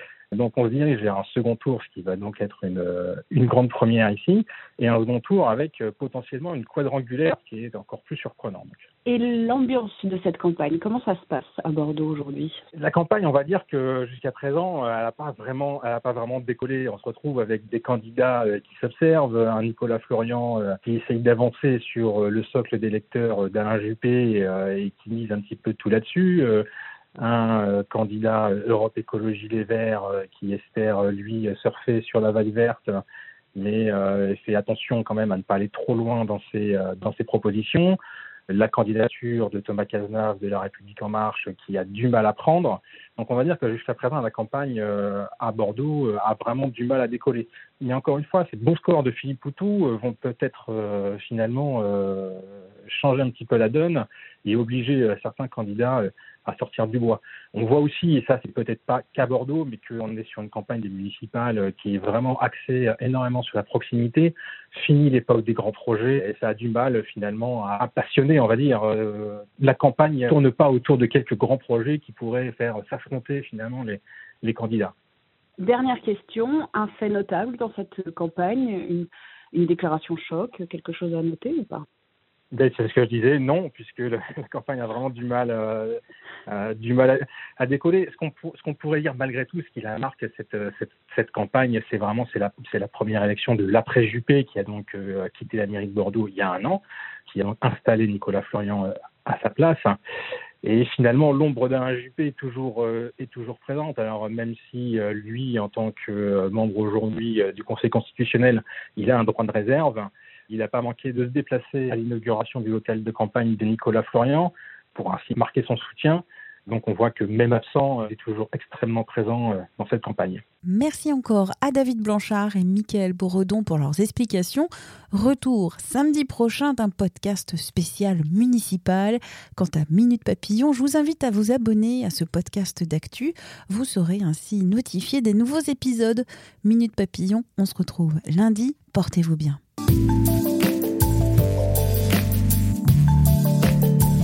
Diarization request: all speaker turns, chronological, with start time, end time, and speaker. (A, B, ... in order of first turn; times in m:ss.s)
0:00.3-0:08.9 A
0:09.0-0:12.6 B
0:12.8-0:26.6 A
0:27.2-0:33.0 A
0:33.6-0:38.0 A
0:38.5-1:14.9 A
1:15.6-1:21.9 B
1:22.5-1:40.0 A
1:40.6-2:00.4 A
2:00.7-2:19.6 C